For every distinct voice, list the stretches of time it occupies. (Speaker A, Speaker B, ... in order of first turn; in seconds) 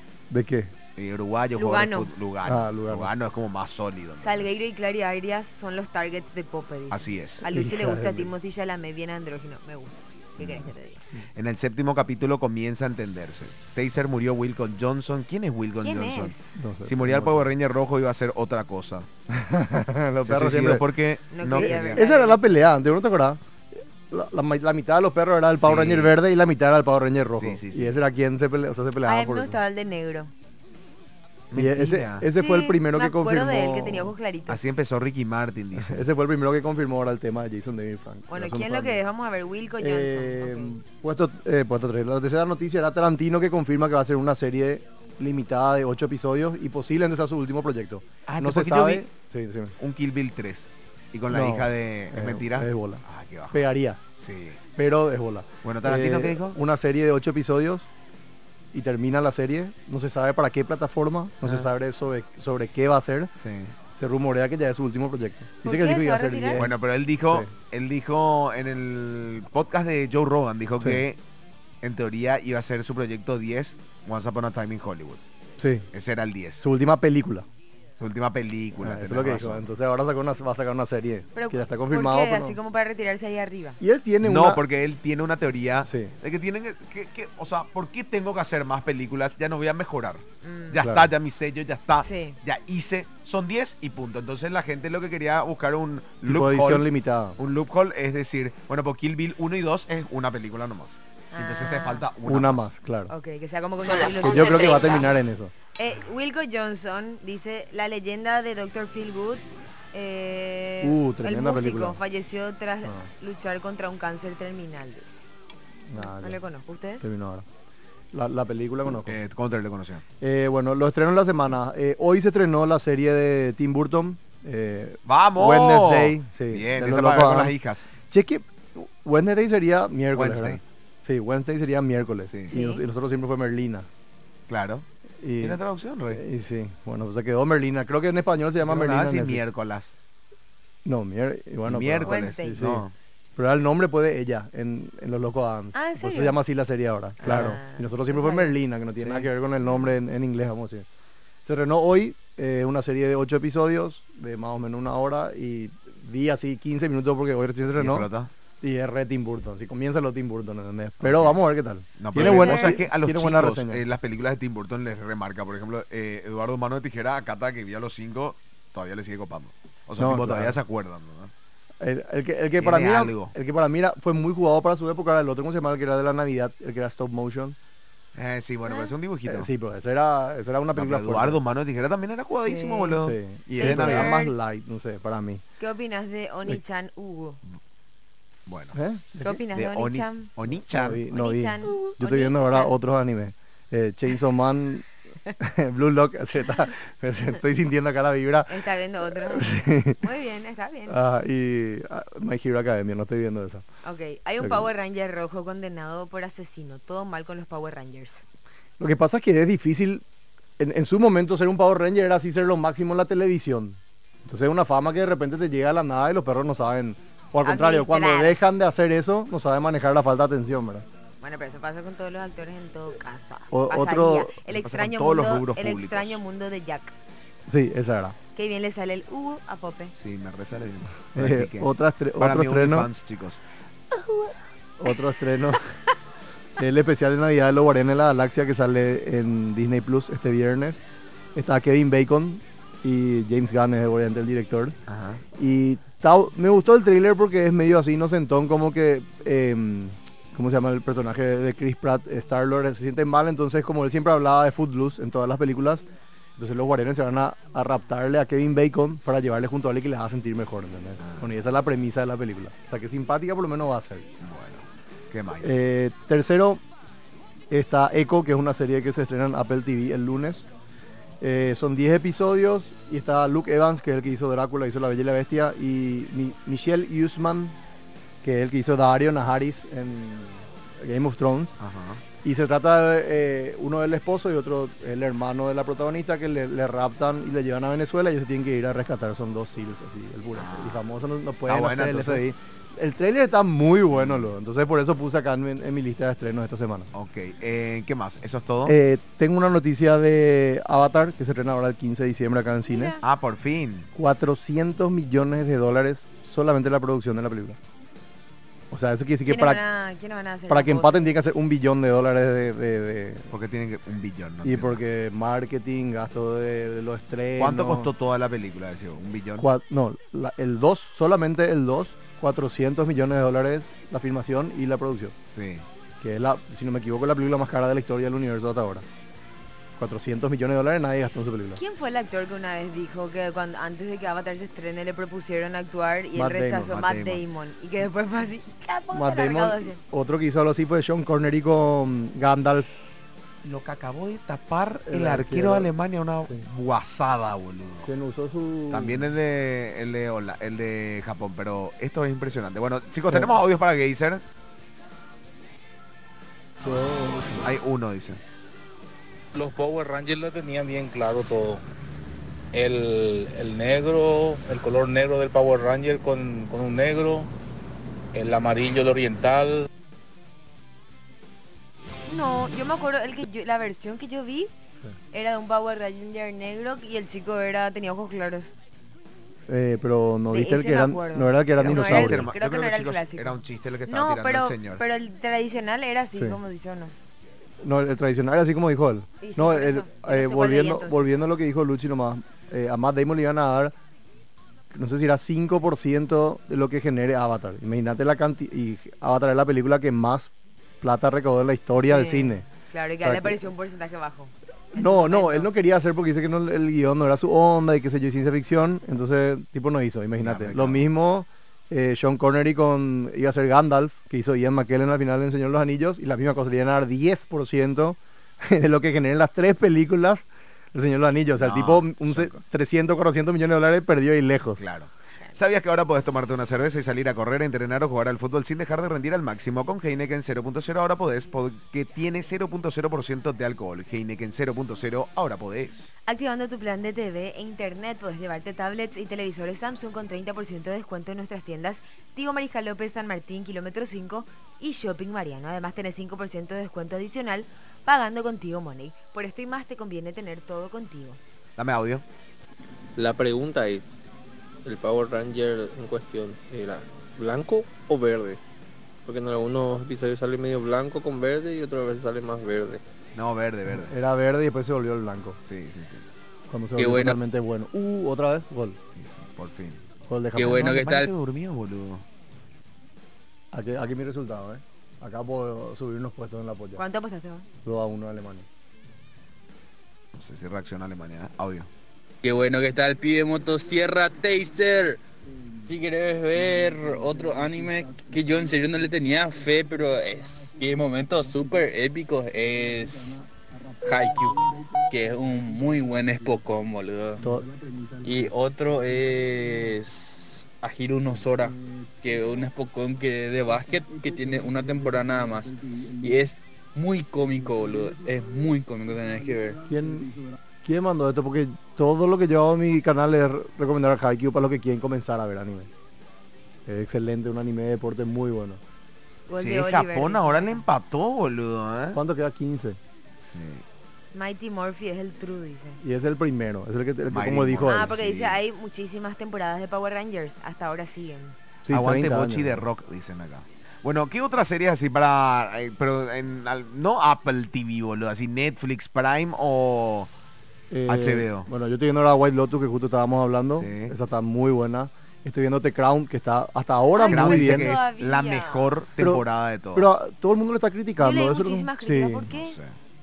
Speaker A: 0.3-0.7, 2.5-3.1, 7.5-8.3, 16.6-17.5, 19.3-20.9, 21.5-23.4, 24.1-29.6, 31.5-34.1, 35.8-39.0, 39.8-49.8, 51.3-54.0, 54.8-57.9, 58.7-63.3, 63.9-67.5, 75.6-75.9, 76.6-77.5, 78.8-82.6, 83.8-84.6, 85.8-86.1, 90.8-91.1, 96.3-97.4, 102.2-103.1, 104.0-105.5, 110.8-112.0, 115.9-116.4, 117.0-117.5, 118.1-119.2, 120.2-133.9, 135.2-135.6, 136.1-139.4, 140.8-142.8, 143.4-150.9, 151.4-158.1, 158.6-163.8, 170.0-170.6, 171.8-177.6, 179.3-181.4, 183.0-185.4, 188.7-189.4, 190.7-194.9, 195.4-200.0, 200.9-203.7, 204.4-204.7, 208.8-210.0, 210.6-220.9, 223.5-224.3, 227.5-228.2, 231.1-232.9, 234.8-235.7, 236.6-240.8, 241.3-244.8, 245.4-255.8, 256.4-264.1, 265.4-266.6, 267.5-270.5, 271.2-277.6, 278.2-281.6, 282.2-296.9, 298.6-303.0, 303.9-307.6, 308.7-309.6, 310.5-313.3, 314.4-317.9, 319.4-325.1, 326.0-328.9, 329.8-331.6, 336.2-336.7, 338.9-342.7, 344.9-345.7, 347.8-349.1, 353.1-353.4, 356.6-357.5, 379.5-382.3, 386.1-386.4, 387.6-393.7, 394.7-402.4, 403.0-403.5, 404.7-424.6, 463.7-465.4, 466.5-468.8, 470.1-470.8, 473.5-476.8, 477.6-478.5, 497.2-497.5, 509.7-510.1, 510.6-515.7, 516.7-518.6, 521.9-522.8, 525.8-528.0, 531.6-532.6, 540.7-547.8, 549.0-552.3
Speaker B: 1.0-4.5, 6.9-7.4, 10.4-10.7, 11.4-19.1, 20.2-22.0, 25.6-26.1, 27.3-28.0, 31.5-32.2, 34.5-36.0, 48.3-49.0, 49.8-53.6, 54.2-54.6, 55.6-56.6, 63.4-63.8, 66.6-71.2, 71.8-75.2, 75.9-76.6, 78.0-79.6, 84.2-96.9, 97.4-102.7, 118.9-120.0, 125.1-127.9, 130.1-130.6, 134.5-134.9, 135.4-136.2, 138.6-139.9, 141.7-142.9, 147.2-147.6, 157.8-158.3, 161.0-161.4, 162.0-171.3, 172.6-173.3, 178.2-179.5, 180.8-184.2, 188.5-188.8, 189.5-191.0, 224.5-226.2, 229.9-233.4, 244.9-245.2, 261.0-261.3, 264.2-265.6, 281.6-282.0, 290.4-290.8, 291.5-292.2, 293.9-294.3, 296.9-298.8, 303.0-303.9, 313.3-314.8, 317.4-319.5, 325.3-325.7, 336.6-337.2, 343.4-347.9, 348.7-354.2, 357.4-358.2, 381.6-384.8, 410.2-410.8, 421.4-422.4, 424.6-435.9, 451.6-452.0, 463.1-463.9, 465.4-466.1, 469.0-469.8, 470.4-472.1, 480.1-481.7, 519.4-522.0, 523.2-523.6, 527.1-528.4, 531.7-540.1, 540.9-541.5, 543.6-543.9, 547.1-549.9, 552.3-552.7
Speaker C: 1.6-2.1, 4.2-11.0, 15.8-16.5, 21.3-22.4, 29.1-30.3, 32.3-34.6, 38.3-40.7, 65.7-66.7, 81.3-83.8, 90.4-90.8, 92.0-92.4, 101.3-102.1, 103.1-105.1, 105.8-115.2, 115.9-117.1, 132.5-132.8, 142.1-142.6, 145.7-146.4, 147.2-148.6, 162.1-162.8, 178.7-178.9, 182.5-183.0, 183.6-184.3, 185.6-187.4, 189.2-190.3, 191.1-192.7, 198.5-201.0, 203.8-208.2, 217.4-218.4, 221.2-226.9, 228.3-229.9, 302.7-303.0, 309.3-311.2, 331.6-339.8, 372.1-374.5, 375.1-378.5, 380.3-386.9, 389.2-391.0, 401.8-405.5, 436.1-451.2, 476.8-477.5, 519.3-520.6, 524.1-525.8, 527.7-531.4, 546.9-548.8, 551.0-552.6
Speaker D: 359.3-361.6, 362.5-367.3, 368.1-369.6
Speaker E: 453.0-454.0, 454.6-458.4, 459.1-462.8
Speaker F: 466.8-467.2, 470.4-471.1, 482.2-485.0, 485.6-493.3, 493.8-497.2, 498.0-509.6